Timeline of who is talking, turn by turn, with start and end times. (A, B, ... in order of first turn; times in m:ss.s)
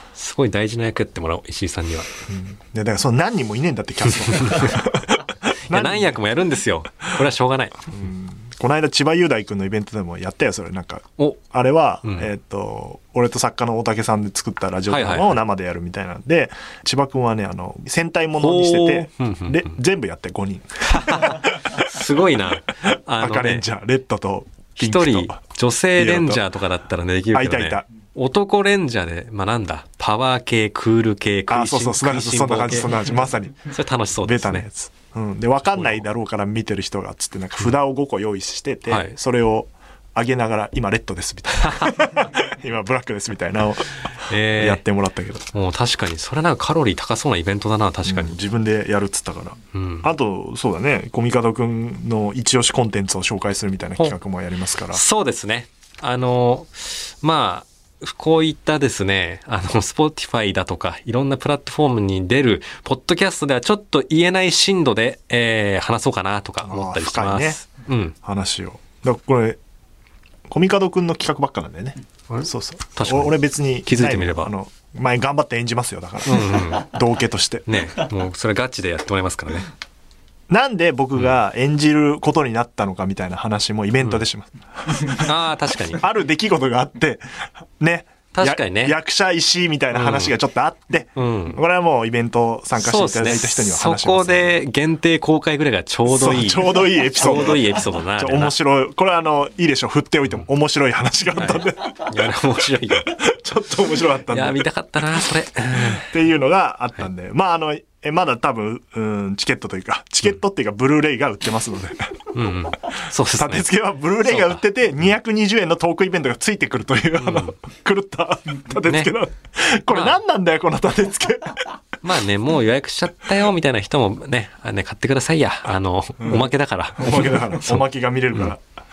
0:00.2-0:02.1 A
0:02.3-0:06.2 B
0:04.5-0:04.8 A
0:05.7-0:07.9 A
0:07.9-0:22.0 B
0:14.9-0:15.4 A
0:18.4-0:19.7 A
0:20.9-0:23.7 A
0:23.2-0:25.4 B
0:24.8-0:33.0 A
0:26.0-0:26.4 B
0:27.3-0:27.8 B
0:31.5-0:33.7 B
0:33.7-0:34.7 A
0:34.2-0:45.5 B
0:38.9-0:39.1 A
0:41.6-0:42.1 A
0:44.3-0:44.8 A
0:45.5-0:48.4 A
0:48.1-0:55.0 B
0:49.7-0:50.1 A
0:54.9-1:08.2 A
1:06.6-1:07.6 B
1:08.2-1:09.6 B
1:10.5-1:17.7 B
1:12.3-1:14.5 A
1:16.3-1:17.0 A
1:17.7-1:19.7 A
1:20.5-1:25.3 B
1:25.1-1:26.0 A
1:25.9-1:27.2 B
1:27.8-1:34.5 B
1:28.3-1:29.0 A
1:29.9-1:30.4 A
1:31.2-1:31.6 A
1:32.8-1:38.6 A
1:36.1-1:42.3 B
1:41.4-1:43.2 A
1:43.0-1:44.7 B
1:44.3-1:46.1 A
1:45.2-1:52.3 B
1:52.3-1:54.6 A
1:53.3-2:01.7 B
1:57.2-1:57.5 A
1:58.9-1:59.1 A
1:59.9-2:00.2 A
2:02.0-2:07.9 A
2:06.2-2:08.6 B